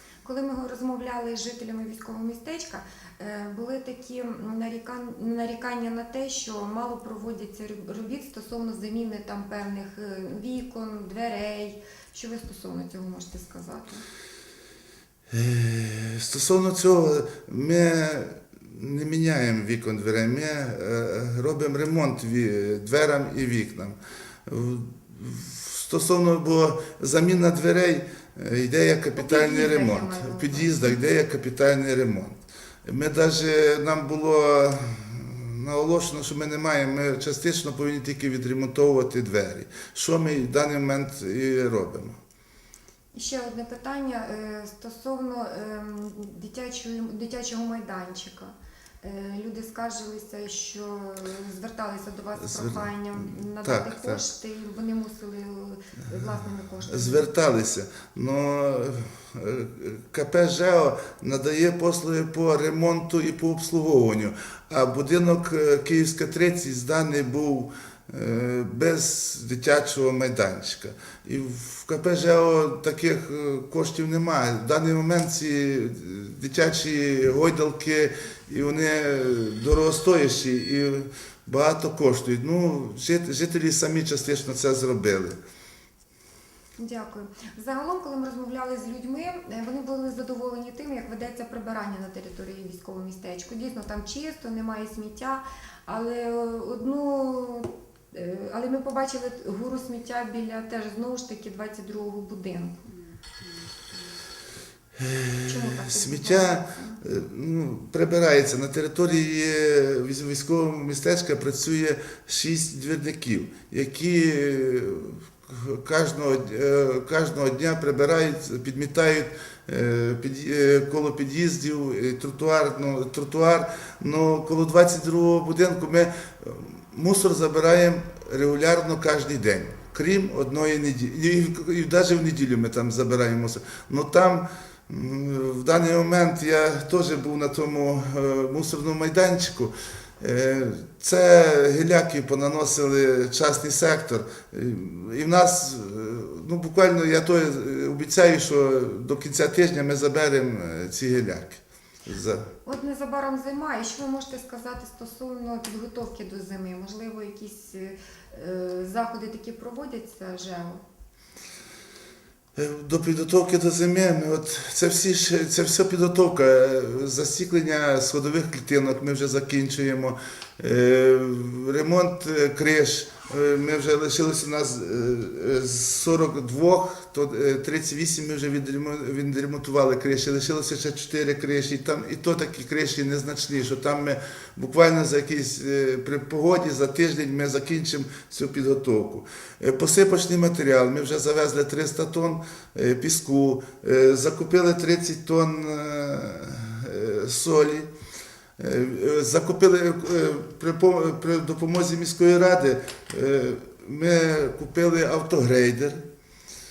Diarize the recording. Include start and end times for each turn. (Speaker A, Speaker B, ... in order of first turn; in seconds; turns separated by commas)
Speaker A: 0.2-14.0, Speaker B: 15.3-42.2, Speaker A: 29.1-31.0, Speaker A: 43.1-48.5, Speaker A: 49.0-57.3, Speaker B: 52.4-54.2, Speaker B: 56.1-85.4, Speaker A: 86.8-102.9, Speaker B: 105.0-152.5, Speaker A: 105.5-107.0, Speaker A: 152.7-160.8, Speaker B: 162.6-197.9, Speaker B: 198.6-206.1